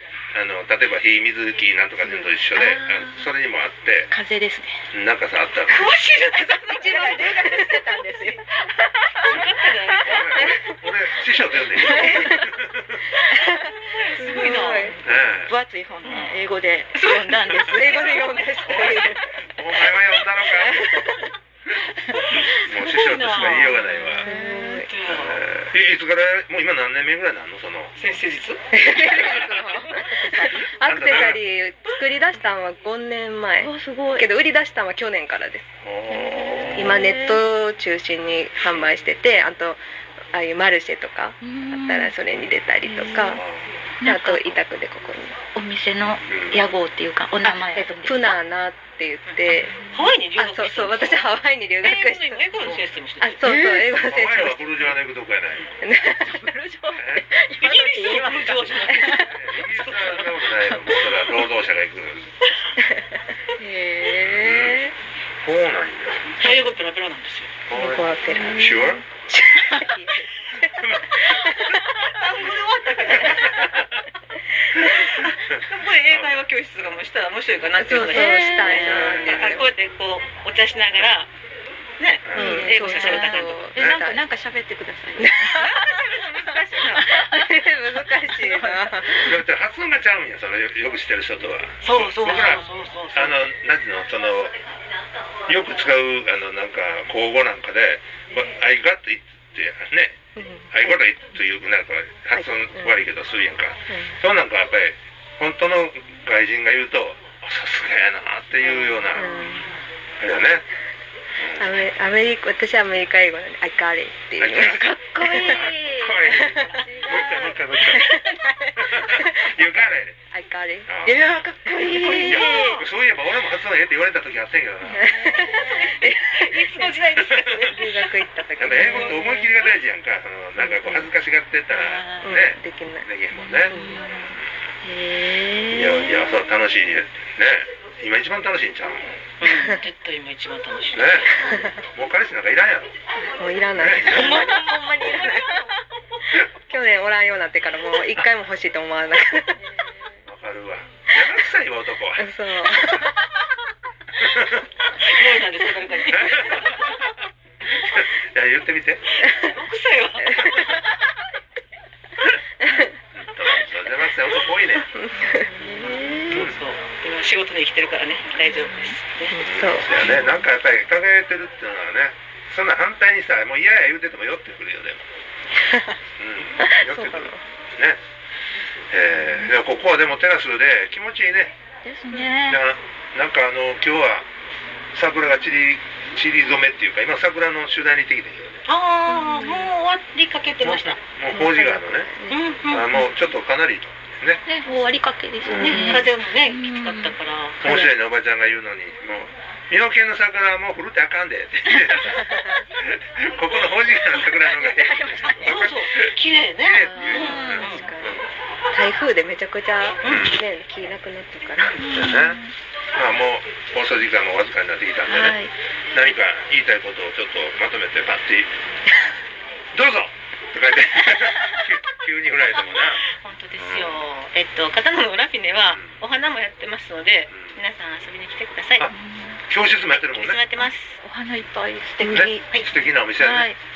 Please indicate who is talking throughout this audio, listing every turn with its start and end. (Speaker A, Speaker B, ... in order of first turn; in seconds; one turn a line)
Speaker A: 0.3-4.1
Speaker B: 2.1-3.3
Speaker B: 4.1-4.8
Speaker A: 4.9-5.9
Speaker C: 5.7-7.6
Speaker B: 6.4-9.5
Speaker D: 6.6-8.4
Speaker C: 9.2-10.4
Speaker A: 10.0-13.0
Speaker D: 10.3-10.7
Speaker D: 11.8-12.4
Speaker B: 12.0-12.3
Speaker D: 13.2-15.1
Speaker C: 13.4-15.0
Speaker B: 14.3-14.9
Speaker A: 15.0-15.5
Speaker B: 15.5-18.3
Speaker C: 16.0-16.4
Speaker C: 16.9-19.1
Speaker D: 17.6-19.3
Speaker A: 18.6-20.8
Speaker D: 20.5-21.3
Speaker C: 22.2-23.7
Speaker A: 22.5-24.3
Speaker B: 23.5-24.8
Speaker D: 24.2-24.9
Speaker C: 24.8-25.4
Speaker A: 25.1-27.9
Speaker C: 27.9-30.6
Speaker D: 28.7-35.7
Speaker A: 29.1-29.6
Speaker B: 29.9-30.7
Speaker A: 30.8-31.4
Speaker B: 33.6-34.3
Speaker A: 35.8-37.0
Speaker B: 36.1-37.4
Speaker D: 36.6-39.8
Speaker D: 40.3-43.4
Speaker B: 41.4-42.1
Speaker B: 42.8-43.4
Speaker A: 43.3-43.7
Speaker B: 44.0-44.5
Speaker D: 44.0-45.4
Speaker B: 45.5-48.3
Speaker A: 46.2-46.6
Speaker D: 47.7-49.7
Speaker C: 49.2-53.4
Speaker B: 49.5-50.1
Speaker D: 50.3-55.0
Speaker B: 53.4-54.0
Speaker A: 54.1-55.7
Speaker D: 55.8-56.4
Speaker B: 56.2-59.3
Speaker A: 57.0-57.3
Speaker C: 57.6-60.5
Speaker A: 59.0-62.3
Speaker B: 60.7-61.4
Speaker B: 63.6-64.8
Speaker A: 64.2-64.9
Speaker A: 65.4-66.4
Speaker C: 66.4-67.6
Speaker A: 67.7-69.0
Speaker D: 67.7-71.8
Speaker B: 68.3-68.8
Speaker A: 70.7-71.6
Speaker C: 71.9-73.9
Speaker A: 73.2-73.9
Speaker C: 74.9-81.3
Speaker A: 76.1-76.4
Speaker D: 77.8-79.7
Speaker B: 78.0-79.2
Speaker A: 78.8-79.6
Speaker C: 82.0-83.6
Speaker A: 82.2-82.7
Speaker D: 82.3-84.2
Speaker B: 82.4-85.8
Speaker A: 83.8-84.0
Speaker D: 85.2-85.8
Speaker C: 85.6-87.2
Speaker B: 87.0-87.7
Speaker D: 87.1-89.4
Speaker B: 88.2-89.2
Speaker A: 89.2-94.5
Speaker C: 91.8-93.4
Speaker B: 92.4-92.6
Speaker A: 95.5-100.2
Speaker D: 100.3-100.9
Speaker A: 100.7-109.3
Speaker D: 102.3-103.0
Speaker D: 103.9-104.2
Speaker B: 108.9-109.7
Speaker D: 109.1-109.7
Speaker A: 110.2-110.6
Speaker A: 111.4-111.8
Speaker D: 111.6-115.7
Speaker A: 114.4-118.1
Speaker B: 114.7-117.7
Speaker D: 116.3-116.8
Speaker D: 117.8-120.9
Speaker A: 118.8-120.1
Speaker A: 120.9-121.2
Speaker B: 121.0-122.8
Speaker D: 121.6-122.3
Speaker C: 121.9-122.8
Speaker A: 122.1-125.1
Speaker B: 124.8-126.1
Speaker D: 124.9-127.0
Speaker C: 125.6-128.0
Speaker A: 127.2-127.7
Speaker D: 127.6-129.3
Speaker A: 128.6-134.5
Speaker B: 128.7-129.5
Speaker B: 130.6-131.0
Speaker B: 131.7-132.4
Speaker D: 132.2-133.1
Speaker B: 133.3-134.3
Speaker D: 133.7-134.0
Speaker B: 134.8-136.3
Speaker A: 135.7-139.2
Speaker C: 139.4-141.6
Speaker A: 140.9-141.3
Speaker A: 141.8-142.9
Speaker D: 143.2-145.6
Speaker A: 143.8-144.3
Speaker C: 144.1-145.7
Speaker B: 144.3-144.7
Speaker D: 146.5-149.6
Speaker B: 149.7-150.2
Speaker A: 150.3-152.2
Speaker D: 152.2-153.1
Speaker A: 154.2-154.6
Speaker C: 155.0-156.9
Speaker A: 156.1-156.9
Speaker A: 157.8-159.0
Speaker C: 159.2-160.8
Speaker D: 162.6-162.9
Speaker A: 163.1-164.9
Speaker D: 164.9-166.1
Speaker B: 165.2-166.3
Speaker C: 165.6-169.4
Speaker A: 166.3-166.6
Speaker D: 169.3-170.0
Speaker A: 169.4-175.0
Speaker D: 175.7-175.9
Speaker A: 176.2-178.0
Speaker D: 176.6-177.4
Speaker A: 178.9-181.5
Speaker B: 179.2-179.5
Speaker B: 181.8-182.6
Speaker A: 182.4-184.3
Speaker A: 184.9-188.6
Speaker C: 188.7-191.0
Speaker B: 189.1-189.5
Speaker A: 190.6-192.1
Speaker D: 191.3-192.4
Speaker C: 192.3-192.9
Speaker A: 192.7-194.4
Speaker B: 194.5-197.8
Speaker A: 195.4-196.0
Speaker C: 195.6-197.8
Speaker A: 197.6-208.2
Speaker B: 201.8-202.2
Speaker B: 204.4-205.7
Speaker C: 205.3-207.8
Speaker D: 206.8-211.8
Speaker B: 207.0-207.8
Speaker C: 210.0-210.3
Speaker A: 210.1-210.4
Speaker C: 211.6-212.0
Speaker B: 211.8-212.5
Speaker A: 211.9-212.4
Speaker A: 212.9-218.5
Speaker B: 215.0-215.5
Speaker A: 219.7-224.0
Speaker C: 222.7-228.9
Speaker A: 225.6-226.0
Speaker A: 227.3-227.6
Speaker B: 228.8-229.4
Speaker A: 229.5-230.4
Speaker C: 230.0-231.0
Speaker B: 231.0-233.6
Speaker A: 232.0-233.5